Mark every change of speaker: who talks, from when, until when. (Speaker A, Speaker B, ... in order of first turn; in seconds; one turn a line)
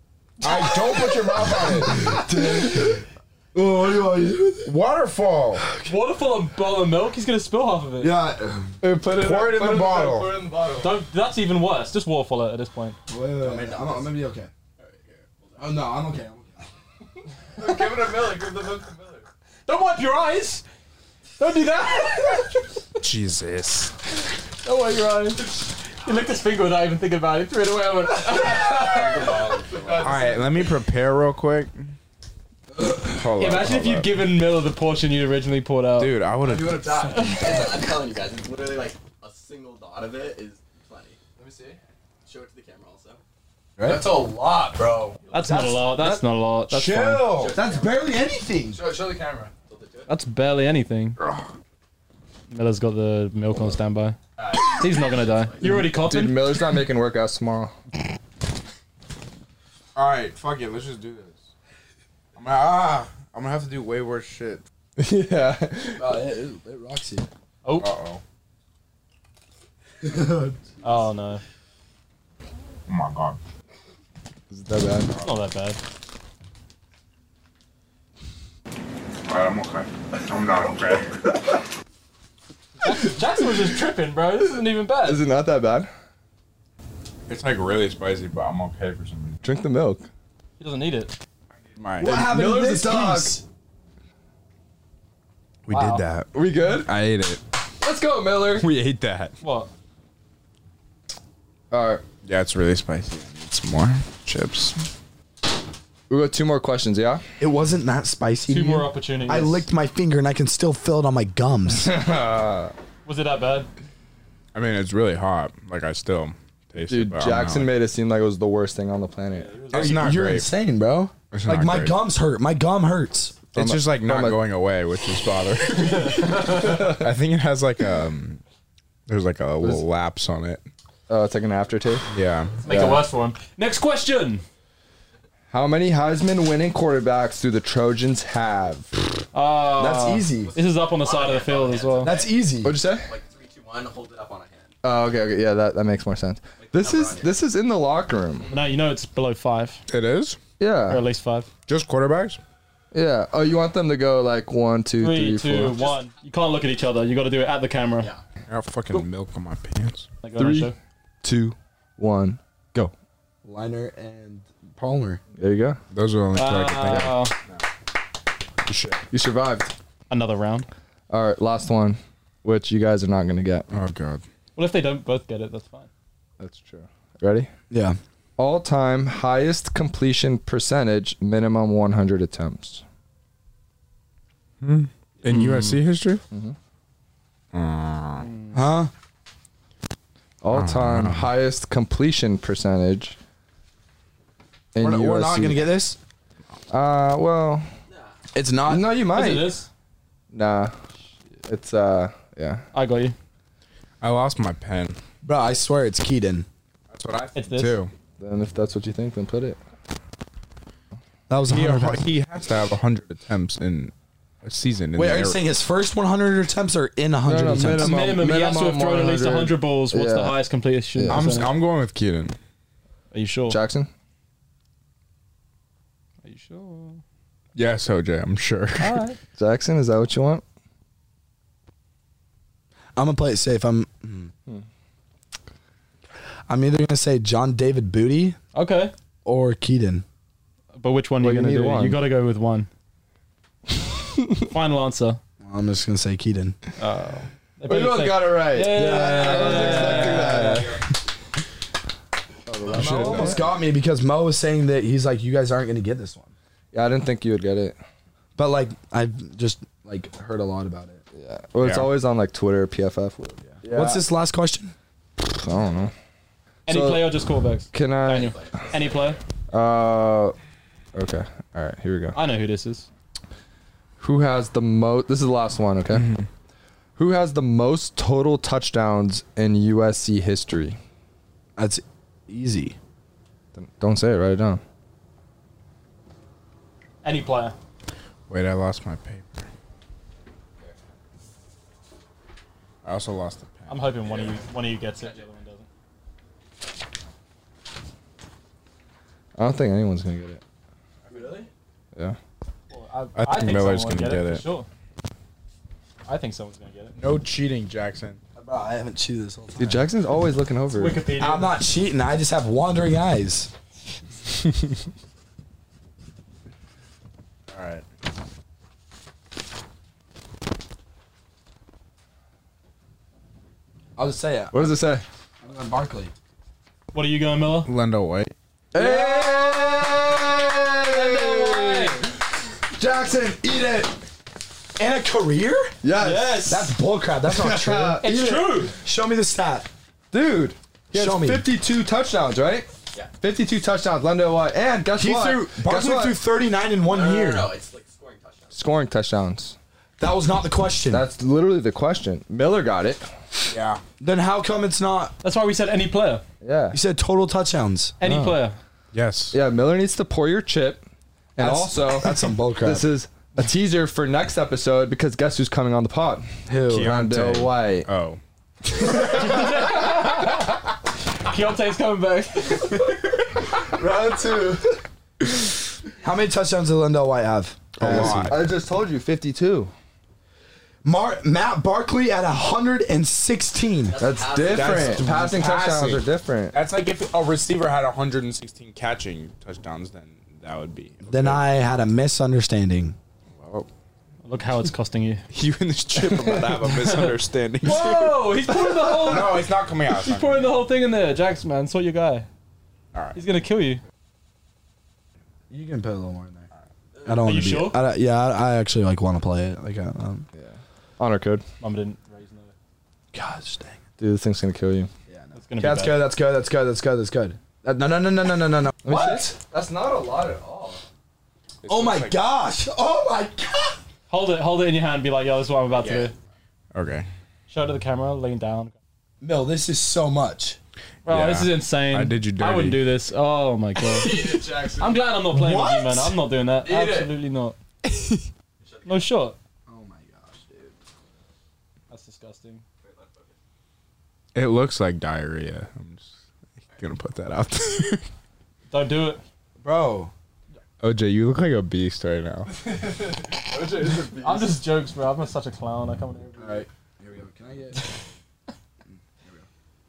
Speaker A: 0.4-2.2
Speaker B: 1.4-4.7
Speaker C: 2.4-2.8
Speaker A: 4.7-5.7
Speaker B: 5.6-5.9
Speaker D: 5.8-8.2
Speaker B: 8.0-8.8
Speaker C: 8.8-11.0
Speaker A: 9.1-10.4
Speaker D: 10.8-13.0
Speaker B: 13.1-14.5
Speaker E: 13.4-14.2
Speaker E: 14.8-15.8
Speaker B: 15.6-16.7
Speaker C: 17.6-18.6
Speaker D: 19.7-20.6
Speaker D: 21.4-22.6
Speaker A: 23.0-23.9
Speaker D: 24.6-29.4
Speaker E: 28.6-30.4
Speaker A: 29.9-31.9
Speaker A: 33.0-34.5
Speaker D: 33.4-36.3
Speaker A: 36.0-37.1
Speaker C: 36.5-37.3
Speaker D: 37.0-37.7
Speaker E: 37.2-41.2
Speaker C: 41.4-41.8
Speaker E: 42.2-43.2
Speaker B: 43.8-44.1
Speaker C: 43.9-44.9
Speaker E: 45.3-45.6
Speaker D: 45.3-47.4
Speaker B: 45.4-48.8
Speaker E: 47.2-48.1
Speaker C: 48.8-49.5
Speaker E: 49.6-50.1
Speaker D: 50.1-51.2
Speaker A: 51.2-51.5
Speaker D: 52.5-56.6
Speaker E: 54.4-55.8
Speaker C: 55.6-57.7
Speaker A: 60.0-61.5
Speaker A: 62.4-64.6
Speaker C: 65.0-66.2
Speaker B: 66.0-67.3
Speaker A: 67.8-68.2
Speaker B: 70.0-70.6
Speaker D: 70.8-71.4
Speaker A: 72.9-73.4
Speaker C: 74.5-75.1
Speaker D: 75.2-75.8
Speaker A: 79.2-81.3
Speaker D: 82.8-85.2
Speaker C: 85.0-85.9
Speaker A: 87.3-89.4
Speaker C: 89.4-90.1
Speaker D: 90.6-91.1
Speaker A: 91.8-92.2
Speaker B: 92.0-93.4
Speaker C: 92.0-93.4
Speaker A: 95.7-97.4
Speaker D: 95.7-96.0
Speaker C: 96.3-96.9
Speaker C: 97.8-98.7
Speaker A: 98.5-99.3
Speaker D: 99.4-99.7
Speaker C: 101.7-102.0
Speaker A: 102.2-104.8
Speaker C: 106.1-107.2
Speaker B: 107.4-111.9
Speaker D: 108.5-109.7
Speaker C: 111.7-112.7
Speaker D: 113.0-113.7
Speaker A: 114.5-117.7
Speaker C: 116.9-119.6
Speaker D: 119.3-120.2
Speaker A: 119.7-120.5
Speaker B: 119.7-123.4
Speaker A: 121.3-122.0
Speaker C: 123.5-124.4
Speaker A: 123.5-128.4
Speaker D: 126.0-126.8
Speaker C: 126.6-127.0
Speaker A: 129.1-130.7
Speaker C: 131.1-132.1
Speaker A: 132.1-132.6
Speaker D: 132.6-134.4
Speaker C: 132.7-133.0
Speaker C: 135.5-139.1
Speaker D: 139.3-142.2
Speaker B: 139.8-140.5
Speaker E: 140.4-142.3
Speaker B: 142.0-142.7
Speaker C: 142.6-143.1
Speaker E: 142.8-144.7
Speaker C: 144.8-148.5
Speaker E: 146.6-147.4
Speaker D: 148.5-149.8
Speaker A: 149.9-150.4
Speaker C: 150.6-151.0
Speaker D: 150.9-151.5
Speaker A: 151.7-152.4
Speaker C: 152.9-155.8
Speaker D: 155.0-158.1
Speaker A: 158.5-160.1
Speaker D: 160.2-160.8
Speaker C: 160.4-162.9
Speaker B: 163.4-165.2
Speaker C: 165.4-165.8
Speaker A: 165.9-167.6
Speaker D: 166.3-167.3
Speaker A: 168.7-169.0
Speaker C: 169.1-169.8
Speaker D: 170.1-170.7
Speaker C: 171.1-173.7
Speaker A: 173.7-174.2
Speaker D: 174.6-175.9
Speaker C: 176.4-177.5
Speaker B: 177.7-178.0
Speaker C: 178.4-182.8
Speaker A: 184.6-186.2
Speaker C: 186.3-186.6
Speaker A: 187.5-188.3
Speaker D: 188.2-188.6
Speaker B: 188.5-188.9
Speaker C: 190.4-193.2
Speaker A: 190.5-191.3
Speaker C: 194.7-195.7
Speaker B: 194.8-196.0
Speaker C: 196.7-197.7
Speaker E: 197.9-198.2
Speaker B: 198.3-198.9
Speaker C: 198.7-199.5
Speaker D: 199.1-199.7
Speaker C: 200.3-200.8
Speaker C: 201.4-202.7
Speaker D: 202.7-203.2
Speaker A: 204.0-205.0
Speaker B: 205.2-206.5
Speaker A: 206.9-207.9
Speaker D: 207.3-207.8
Speaker C: 208.2-209.6
Speaker B: 211.3-212.1
Speaker A: 211.5-215.4
Speaker B: 214.9-218.0
Speaker C: 217.2-220.4
Speaker D: 217.8-221.5
Speaker C: 220.9-221.3
Speaker A: 221.1-222.4
Speaker D: 223.1-223.6
Speaker C: 223.5-223.9
Speaker D: 226.2-227.0
Speaker A: 227.6-229.0
Speaker D: 228.8-229.2
Speaker C: 229.3-230.4
Speaker B: 233.0-234.3
Speaker B: 236.5-238.4
Speaker D: 238.5-238.9
Speaker B: 239.2-240.1
Speaker D: 240.8-242.7
Speaker C: 241.2-242.0
Speaker D: 244.4-245.2
Speaker B: 245.4-246.6
Speaker D: 246.8-250.7
Speaker C: 247.7-250.8
Speaker B: 248.7-250.1
Speaker E: 250.1-250.8
Speaker C: 252.5-253.5
Speaker B: 252.7-256.3
Speaker A: 252.7-253.3
Speaker C: 256.7-257.8
Speaker B: 258.4-261.0
Speaker C: 261.1-264.0
Speaker A: 261.6-261.9
Speaker B: 263.6-264.7
Speaker C: 265.2-265.9
Speaker D: 266.7-269.2
Speaker C: 266.7-267.1
Speaker C: 267.7-268.4
Speaker E: 268.1-269.2
Speaker C: 269.5-270.4
Speaker C: 270.9-272.2
Speaker D: 272.1-272.9
Speaker C: 274.0-276.1
Speaker A: 275.9-276.3
Speaker C: 277.0-280.8
Speaker B: 281.6-282.8
Speaker C: 283.6-284.6
Speaker D: 287.0-287.6
Speaker A: 288.3-289.5
Speaker A: 292.8-293.9
Speaker D: 293.7-295.7
Speaker E: 294.0-295.3
Speaker C: 299.4-300.4
Speaker E: 301.1-301.5
Speaker D: 302.7-304.7
Speaker A: 303.2-304.4
Speaker D: 306.1-306.9
Speaker A: 307.0-308.2
Speaker B: 308.4-309.9
Speaker C: 309.6-311.0
Speaker D: 310.8-311.6
Speaker B: 311.2-313.5
Speaker A: 317.5-317.9
Speaker B: 324.0-324.7
Speaker C: 324.5-325.0
Speaker B: 325.4-326.1
Speaker D: 326.9-327.7
Speaker A: 327.7-328.3
Speaker C: 328.7-332.0
Speaker B: 328.8-329.3
Speaker D: 328.9-329.5
Speaker D: 330.8-332.1
Speaker B: 332.8-334.0
Speaker B: 334.8-335.8
Speaker C: 335.8-336.7
Speaker D: 336.0-336.7
Speaker B: 336.4-339.7
Speaker C: 337.3-338.4
Speaker D: 338.0-338.8
Speaker C: 340.1-342.7
Speaker B: 340.9-341.5
Speaker C: 343.2-346.2
Speaker B: 344.9-347.5
Speaker E: 346.9-348.6
Speaker C: 348.5-349.6
Speaker B: 350.0-351.1
Speaker C: 350.9-353.1
Speaker A: 353.5-353.8
Speaker B: 354.0-355.1
Speaker D: 355.2-356.2
Speaker C: 356.4-356.8
Speaker B: 356.7-358.0
Speaker D: 358.0-358.6
Speaker C: 358.0-358.4
Speaker A: 358.9-359.4
Speaker C: 359.3-360.8
Speaker C: 361.4-367.9
Speaker B: 361.4-362.9
Speaker B: 366.5-366.9
Speaker A: 366.7-368.2
Speaker D: 368.8-373.2
Speaker C: 373.8-374.6
Speaker B: 376.0-378.5
Speaker A: 377.8-378.5
Speaker C: 377.8-379.7
Speaker B: 380.8-384.0
Speaker E: 383.8-385.1
Speaker C: 384.0-386.6
Speaker A: 384.4-391.4
Speaker B: 391.1-393.0
Speaker A: 393.4-393.7
Speaker D: 394.2-395.2
Speaker A: 395.3-400.7
Speaker D: 396.6-402.3
Speaker A: 402.9-403.2
Speaker D: 403.1-403.8
Speaker B: 405.5-406.5
Speaker E: 406.9-407.5
Speaker B: 407.1-410.3
Speaker D: 407.2-407.8
Speaker C: 410.4-411.4
Speaker D: 411.6-412.5
Speaker B: 413.1-413.8
Speaker C: 414.0-414.9
Speaker B: 415.1-419.4
Speaker D: 415.4-416.0
Speaker C: 418.8-420.8
Speaker A: 421.6-422.2
Speaker B: 421.7-423.8
Speaker D: 424.1-426.1
Speaker E: 425.7-426.2
Speaker A: 426.7-427.1
Speaker D: 427.5-428.8
Speaker B: 429.2-430.6
Speaker D: 431.1-437.6
Speaker A: 431.1-432.8
Speaker C: 434.1-434.8
Speaker B: 435.3-436.2
Speaker C: 436.6-437.1
Speaker E: 438.6-439.3
Speaker D: 438.9-439.4
Speaker B: 439.7-440.7
Speaker D: 441.9-442.6
Speaker E: 442.8-443.4
Speaker A: 444.4-446.1
Speaker A: 446.8-448.1
Speaker D: 448.7-449.2
Speaker B: 449.6-450.1
Speaker A: 450.8-452.6
Speaker C: 452.9-454.6
Speaker D: 454.2-456.7
Speaker B: 456.4-457.9